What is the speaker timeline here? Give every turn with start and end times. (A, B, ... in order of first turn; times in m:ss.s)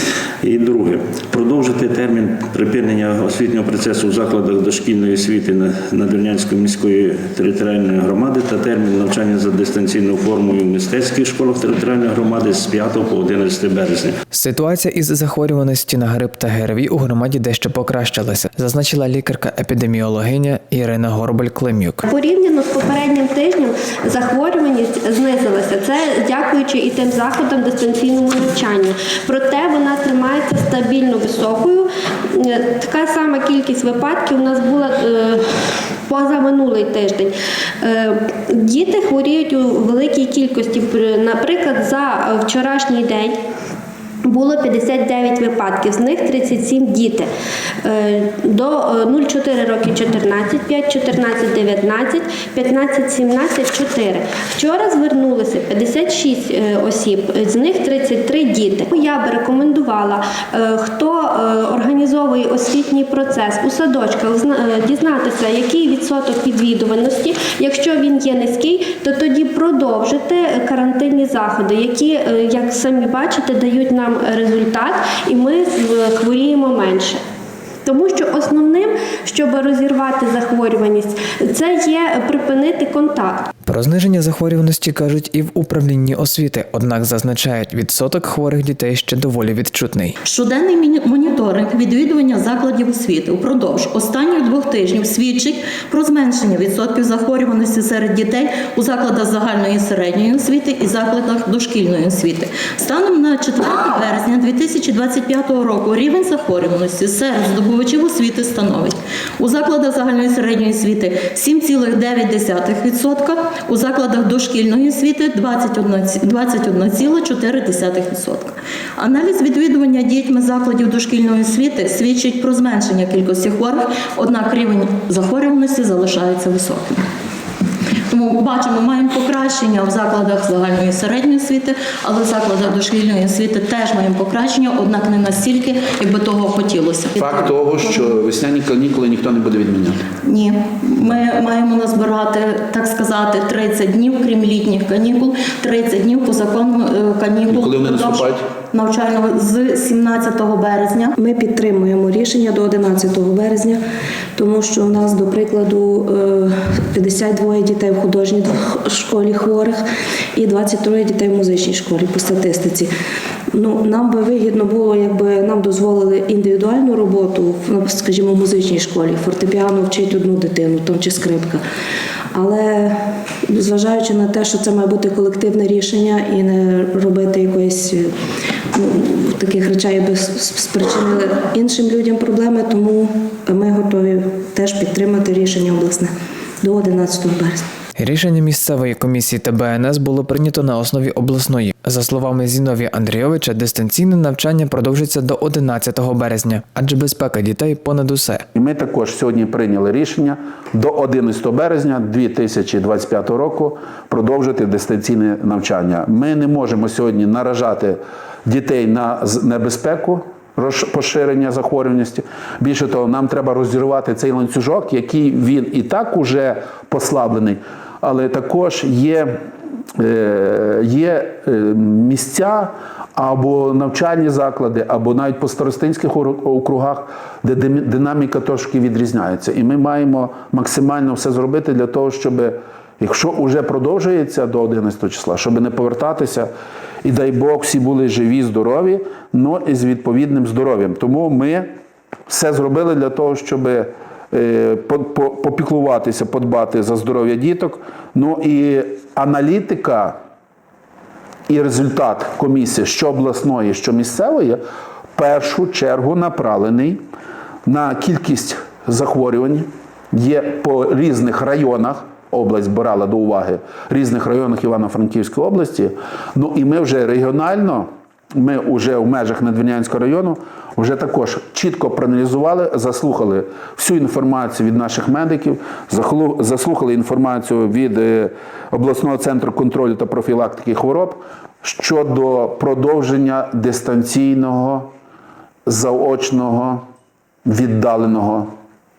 0:00.4-0:14.1 A
0:14.3-0:22.0 B
0:22.0-0:35.4 C
0:36.1-0:43.4 C
0:44.3-0:47.3 C
0:47.8-1:17.2 C
1:17.8-1:23.4 C
1:23.7-1:30.2 B
1:30.2-2:07.1 D
2:08.1-2:17.9 D
2:17.2-2:20.0 E
2:20.2-2:31.2 D
2:27.7-2:28.4 E
2:31.2-2:33.8 F
2:34.4-2:39.8 F
2:40.4-2:42.9 F
2:43.5-2:51.6 F
2:52.3-2:53.0 F
2:53.5-2:58.1 F
2:58.8-3:06.1 F
3:06.6-3:07.6 F
3:08.0-3:18.4 B
3:18.5-3:39.4 E
3:40.0-3:56.5 E
3:57.0-4:01.7 E
4:02.3-4:10.2 E
4:11.5-4:14.6 E
4:15.1-4:17.0 E
4:17.6-4:44.9 E
4:45.6-4:46.8 E
4:47.4-4:48.5 E